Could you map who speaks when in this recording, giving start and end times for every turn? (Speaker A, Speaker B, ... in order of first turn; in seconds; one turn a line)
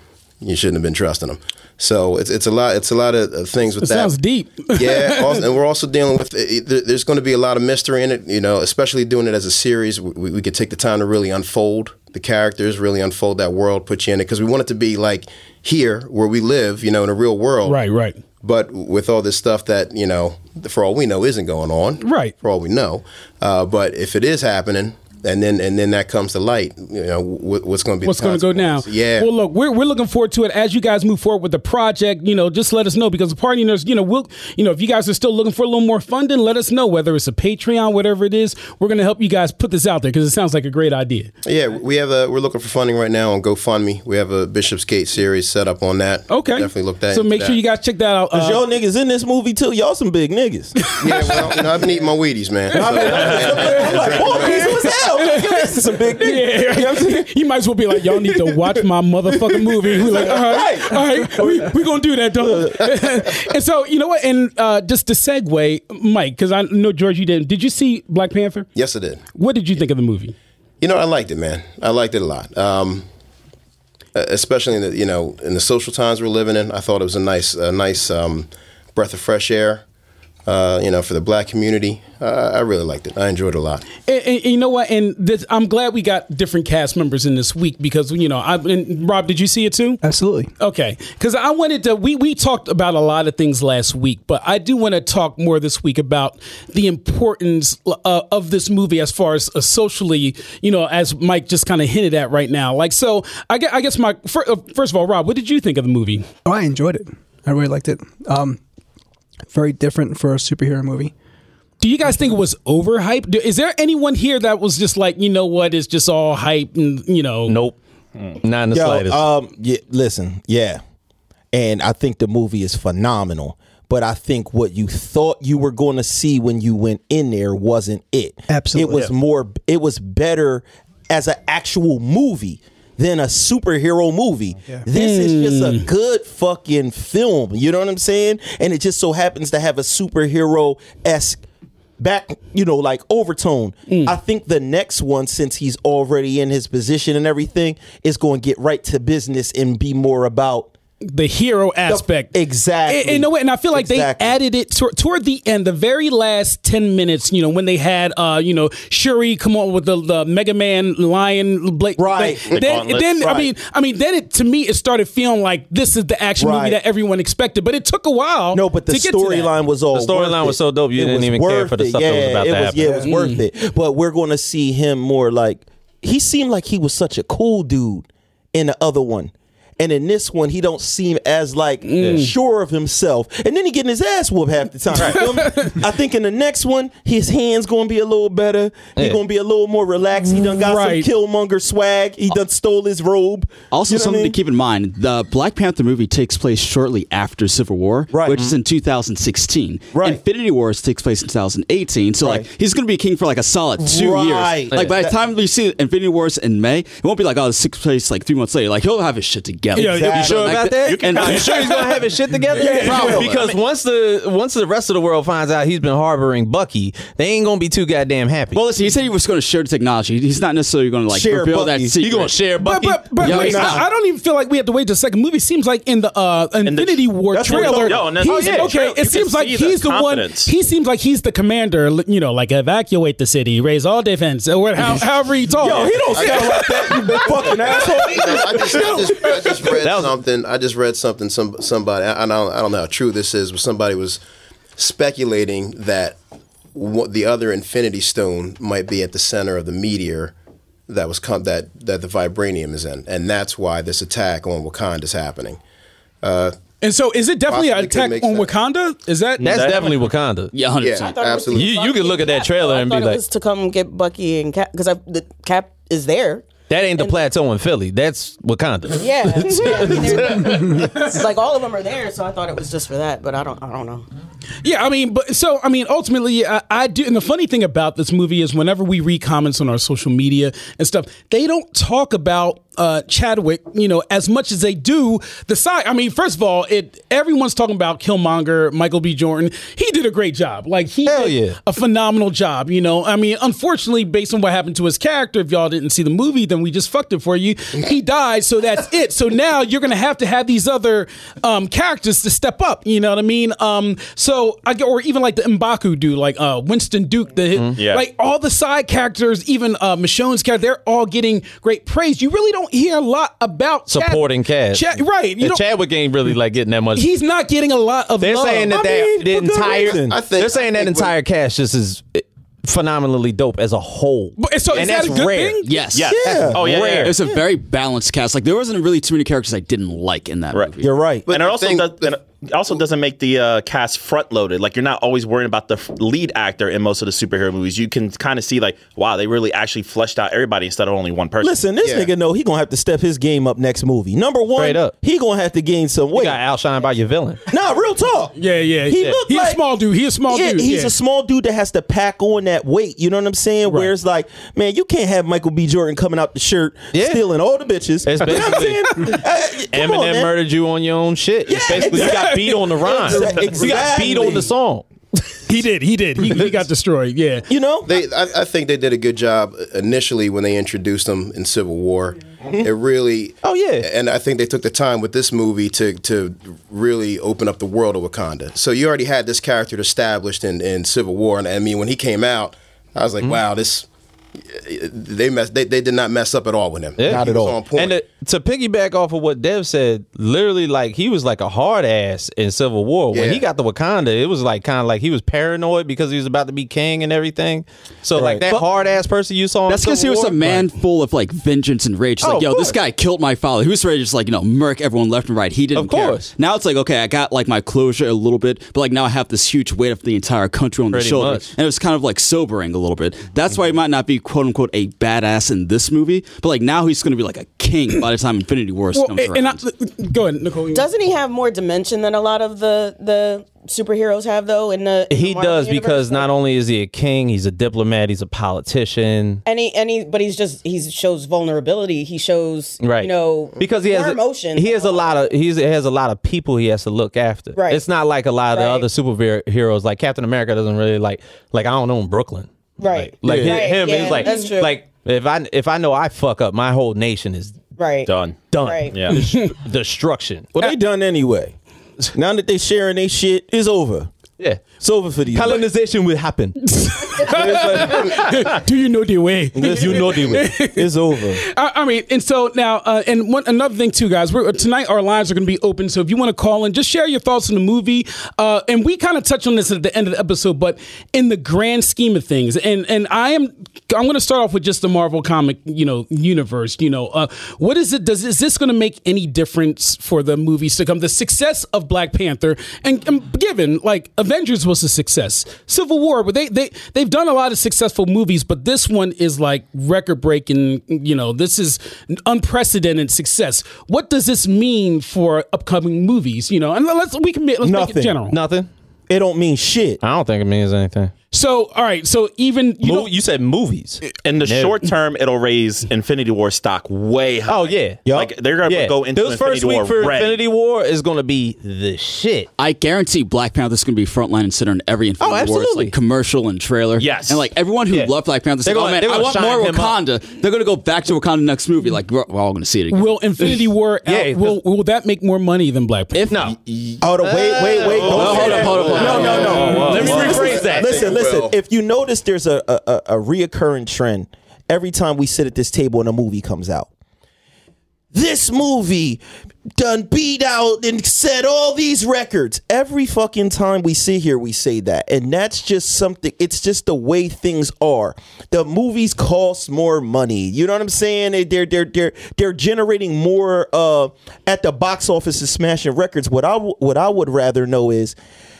Speaker A: 0.4-4.2
Speaker B: 3.8-5.4
Speaker A: 4.7-17.8
Speaker B: 17.6-18.2
Speaker A: 18.4-29.3
Speaker B: 22.0-22.3
Speaker B: 28.0-41.3
Speaker A: 41.4-47.6
Speaker B: 46.3-48.6
Speaker C: 48.3-50.9
Speaker B: 50.9-51.5
Speaker A: 51.0-54.8
Speaker C: 52.7-57.3
Speaker B: 52.9-68.7
Speaker C: 58.0-58.6
Speaker C: 59.3-61.8
Speaker C: 62.4-63.1
Speaker A: 68.8-69.2
Speaker B: 69.3-70.3
Speaker A: 70.8-73.1
Speaker A: 74.1-79.8
Speaker A: 80.5-83.8
Speaker B: 84.1-90.0
Speaker D: 90.0-90.5
Speaker B: 90.6-106.2
Speaker D: 106.5-108.6
Speaker D: 109.5-111.1
Speaker B: 111.8-117.6
Speaker E: 117.5-117.8
Speaker E: 118.4-119.2
Speaker C: 118.7-120.8
Speaker C: 121.5-141.4
Speaker D: 128.5-129.1
Speaker B: 134.9-135.9
Speaker C: 142.0-150.7
Speaker B: 143.9-144.1
Speaker B: 151.0-152.3
Speaker C: 151.9-154.4
Speaker B: 152.9-169.5
Speaker C: 162.0-163.4
Speaker F: 162.5-163.3
Speaker C: 166.4-166.8
Speaker C: 168.5-194.4
Speaker E: 169.9-173.1
Speaker B: 172.9-173.4
Speaker B: 181.8-182.3
Speaker B: 185.0-185.8
Speaker E: 189.0-189.2
Speaker B: 190.2-191.1
Speaker G: 193.7-211.9
Speaker C: 198.1-198.5
Speaker C: 199.9-200.2
Speaker C: 202.2-202.5
Speaker C: 203.8-205.2
Speaker B: 209.8-210.3
Speaker C: 209.8-211.8
Speaker E: 210.1-218.6
Speaker C: 212.5-213.5
Speaker G: 212.5-213.5
Speaker B: 212.6-213.0
Speaker G: 218.5-222.4
Speaker C: 221.1-222.0
Speaker E: 222.0-223.6
Speaker B: 222.6-237.3
Speaker G: 223.2-223.8
Speaker C: 223.2-223.8
Speaker F: 226.7-230.5
Speaker C: 227.3-228.6
Speaker C: 235.6-239.7
Speaker A: 236.1-236.6
Speaker A: 238.0-244.2
Speaker E: 239.8-240.1
Speaker A: 244.8-246.2
Speaker A: 246.7-250.3
Speaker A: 250.9-255.6
Speaker A: 256.2-256.6
Speaker B: 256.8-260.0
Speaker A: 257.5-258.5
Speaker E: 259.4-260.5
Speaker F: 259.5-259.8
Speaker G: 260.5-261.4
Speaker A: 260.8-261.8
Speaker H: 261.0-267.2
Speaker E: 261.5-263.2
Speaker E: 266.7-270.8
Speaker H: 268.9-274.1
Speaker B: 274.6-315.6
Speaker E: 291.1-291.6
Speaker F: 307.8-308.0
Speaker E: 313.9-317.1
Speaker B: 316.9-318.8
Speaker E: 318.2-325.6
Speaker C: 318.7-320.2
Speaker A: 319.6-321.1
Speaker B: 324.4-325.8
Speaker G: 325.6-330.9
Speaker F: 325.9-327.1
Speaker C: 326.1-327.4
Speaker E: 326.3-327.1
Speaker C: 330.8-331.3
Speaker A: 331.3-332.1
Speaker F: 331.3-341.6
Speaker C: 341.4-346.4
Speaker A: 341.8-342.1
Speaker E: 344.6-344.9
Speaker E: 346.1-347.4
Speaker C: 347.5-348.3
Speaker B: 348.4-350.9
Speaker C: 348.9-349.6
Speaker C: 350.3-360.4
Speaker B: 353.7-353.9
Speaker E: 356.9-357.2
Speaker E: 358.0-359.0
Speaker E: 359.7-364.9
Speaker C: 361.5-364.5
Speaker B: 361.5-363.2
Speaker B: 365.5-367.5
Speaker C: 367.5-367.9
Speaker A: 367.9-383.9
Speaker E: 373.4-373.9
Speaker A: 384.4-388.0
Speaker E: 387.0-400.7
Speaker A: 393.1-393.4
Speaker C: 398.1-398.6
Speaker G: 399.6-419.6
Speaker E: 402.2-402.8
Speaker E: 405.8-406.3
Speaker E: 410.9-411.5
Speaker B: 418.9-420.9
Speaker H: 420.7-426.3
Speaker E: 425.1-429.4
Speaker H: 429.4-435.1
Speaker E: 432.8-447.6
Speaker H: 437.6-437.9
Speaker H: 438.5-438.9
Speaker H: 442.8-444.8
Speaker C: 443.2-444.2
Speaker H: 447.8-449.0
Speaker F: 448.1-449.2
Speaker E: 448.4-450.7
Speaker B: 449.1-449.5
Speaker C: 450.6-451.5
Speaker C: 452.1-454.1
Speaker E: 454.4-454.7
Speaker C: 454.8-455.6
Speaker E: 455.3-456.6
Speaker B: 456.6-498.4
Speaker E: 457.3-458.6
Speaker C: 457.3-458.1
Speaker C: 459.6-461.4
Speaker E: 459.6-460.5
Speaker C: 497.6-498.2
Speaker E: 498.3-498.7
Speaker C: 499.1-500.0
Speaker E: 500.0-501.1
Speaker B: 501.3-503.1
Speaker E: 502.8-504.8
Speaker F: 504.2-510.4
Speaker E: 507.4-508.0
Speaker C: 508.1-508.3
Speaker E: 508.6-512.5
Speaker G: 512.6-523.2
Speaker E: 515.2-515.9
Speaker F: 517.0-517.5
Speaker E: 518.6-520.0
Speaker B: 522.9-526.3
Speaker E: 524.1-524.6
Speaker E: 526.1-526.6
Speaker A: 526.5-527.0
Speaker C: 527.0-536.9
Speaker E: 527.2-531.1
Speaker A: 527.7-531.6
Speaker F: 527.9-528.7
Speaker G: 528.1-530.0
Speaker F: 529.6-530.3
Speaker C: 538.1-539.2
Speaker C: 539.8-558.1